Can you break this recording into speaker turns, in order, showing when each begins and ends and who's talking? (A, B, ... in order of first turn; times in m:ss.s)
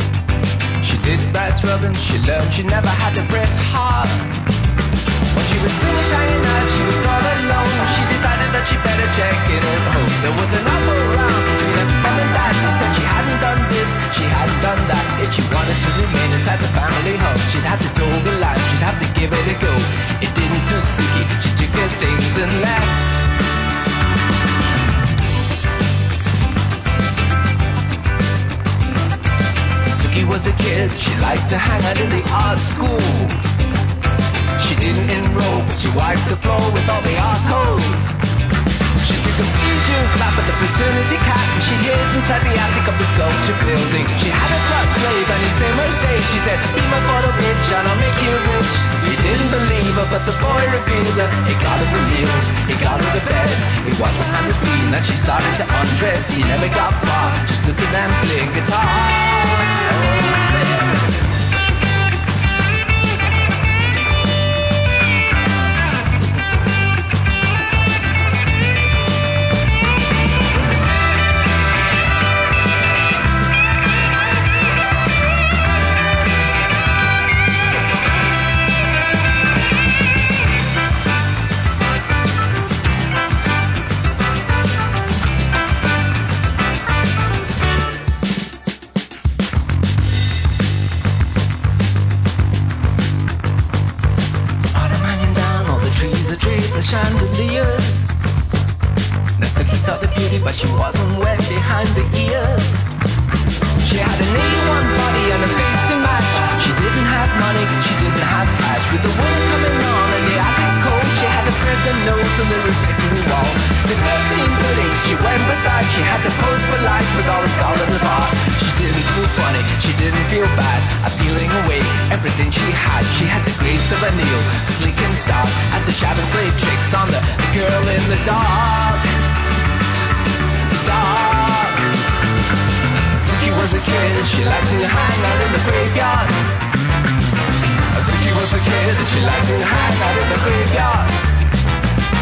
0:00.8-0:04.2 A
0:05.3-0:23.2 A
0:29.9-0:33.3 A
0:34.6-0:38.1 A
0:39.0-1:00.9 A
1:34.7-1:38.1 A
1:39.4-1:42.8 A
1:43.8-2:09.0 A
2:10.8-2:11.8 A
2:13.2-2:16.3 A
2:17.9-2:21.1 A